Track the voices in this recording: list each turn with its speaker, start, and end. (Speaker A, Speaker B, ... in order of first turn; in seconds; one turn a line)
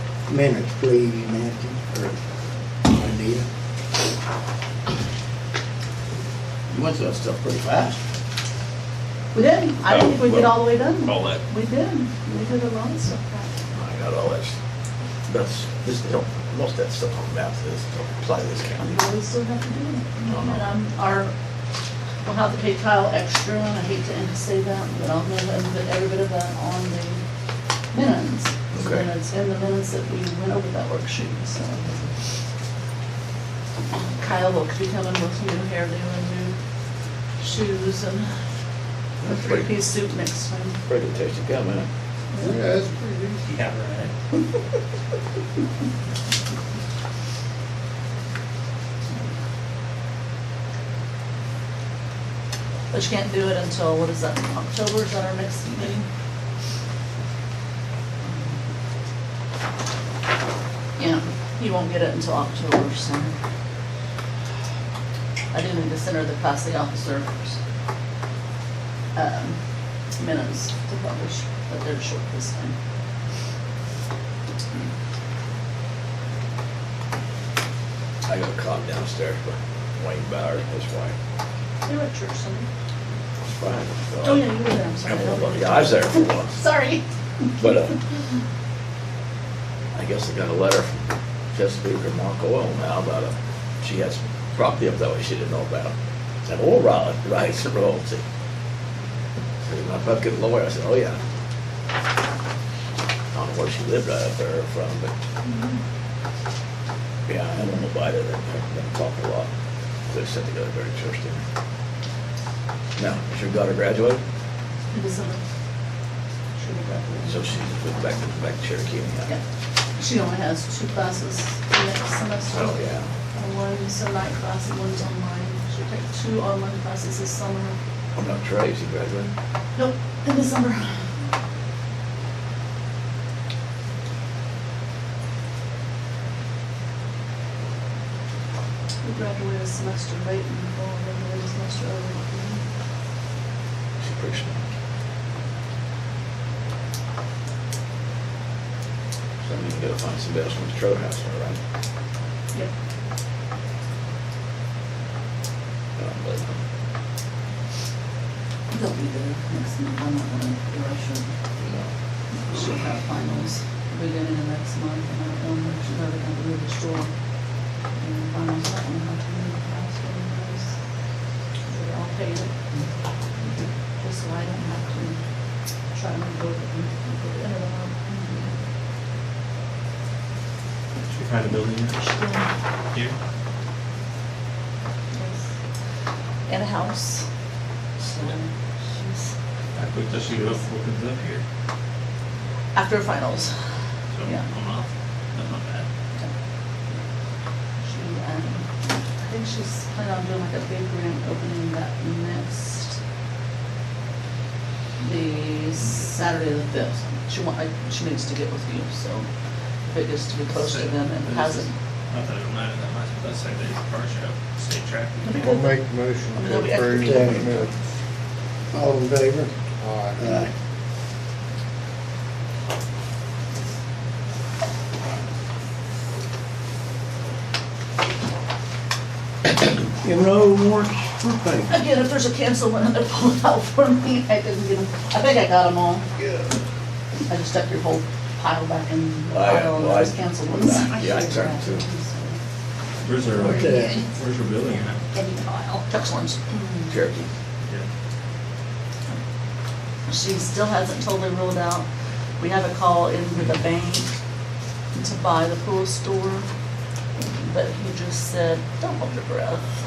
Speaker A: 0.3-2.2
Speaker A: 2.8-3.5
Speaker B: 6.7-8.0
Speaker C: 9.3-13.6
Speaker B: 9.9-11.4
Speaker B: 13.7-14.6
Speaker B: 15.3-19.0
Speaker C: 18.8-21.3
Speaker B: 20.3-20.7
Speaker C: 22.2-27.2
Speaker C: 27.9-32.1
Speaker B: 28.7-29.1
Speaker C: 33.9-36.5
Speaker C: 37.4-38.3
Speaker B: 39.2-39.7
Speaker C: 39.2-40.8
Speaker B: 40.9-41.9
Speaker D: 42.4-43.5
Speaker E: 43.4-44.1
Speaker C: 52.9-56.0
Speaker C: 61.0-63.4
Speaker C: 65.5-67.6
Speaker C: 69.2-69.6
Speaker C: 70.2-72.8
Speaker B: 78.3-81.2
Speaker C: 81.8-82.7
Speaker B: 83.5-86.6
Speaker C: 84.2-87.0
Speaker B: 87.6-88.0
Speaker B: 89.9-98.2
Speaker B: 99.6-101.2
Speaker B: 103.3-105.1
Speaker C: 105.5-105.8
Speaker B: 107.3-109.5
Speaker B: 110.1-111.4
Speaker B: 113.0-114.2
Speaker C: 114.9-115.4
Speaker C: 116.6-117.5
Speaker B: 117.3-119.3
Speaker C: 120.0-122.8
Speaker B: 122.5-123.1
Speaker C: 123.3-127.8
Speaker B: 128.2-129.3
Speaker C: 129.8-130.9
Speaker C: 139.0-142.6
Speaker B: 144.0-144.6
Speaker B: 149.4-151.6
Speaker B: 156.0-156.6
Speaker C: 158.7-161.3
Speaker B: 161.6-161.9
Speaker C: 162.4-167.1
Speaker C: 168.0-170.7
Speaker C: 171.7-172.5
Speaker C: 174.0-175.2
Speaker C: 175.9-178.5
Speaker E: 181.1-182.0
Speaker C: 181.9-182.5
Speaker E: 182.9-183.2
Speaker C: 185.1-185.4
Speaker C: 186.5-187.3
Speaker C: 188.0-189.3
Speaker E: 189.7-191.4
Speaker C: 192.8-193.5
Speaker E: 194.1-195.9
Speaker C: 197.8-203.0
Speaker C: 205.0-209.3
Speaker E: 205.7-206.1
Speaker C: 209.9-211.7
Speaker E: 210.5-215.5
Speaker C: 215.2-217.6
Speaker D: 215.3-217.7
Speaker A: 217.0-217.7
Speaker A: 218.7-219.5
Speaker D: 218.9-220.4
Speaker A: 220.2-220.5
Speaker A: 229.5-231.7
Speaker C: 231.7-236.1
Speaker B: 236.2-236.5
Speaker C: 237.3-242.4
Speaker B: 239.3-241.8
Speaker E: 243.0-245.0
Speaker A: 243.3-244.0
Speaker C: 243.3-244.1
Speaker C: 245.1-247.0
Speaker B: 246.9-247.3
Speaker C: 250.1-251.9
Speaker C: 252.4-254.1
Speaker C: 254.9-256.5
Speaker C: 257.3-259.6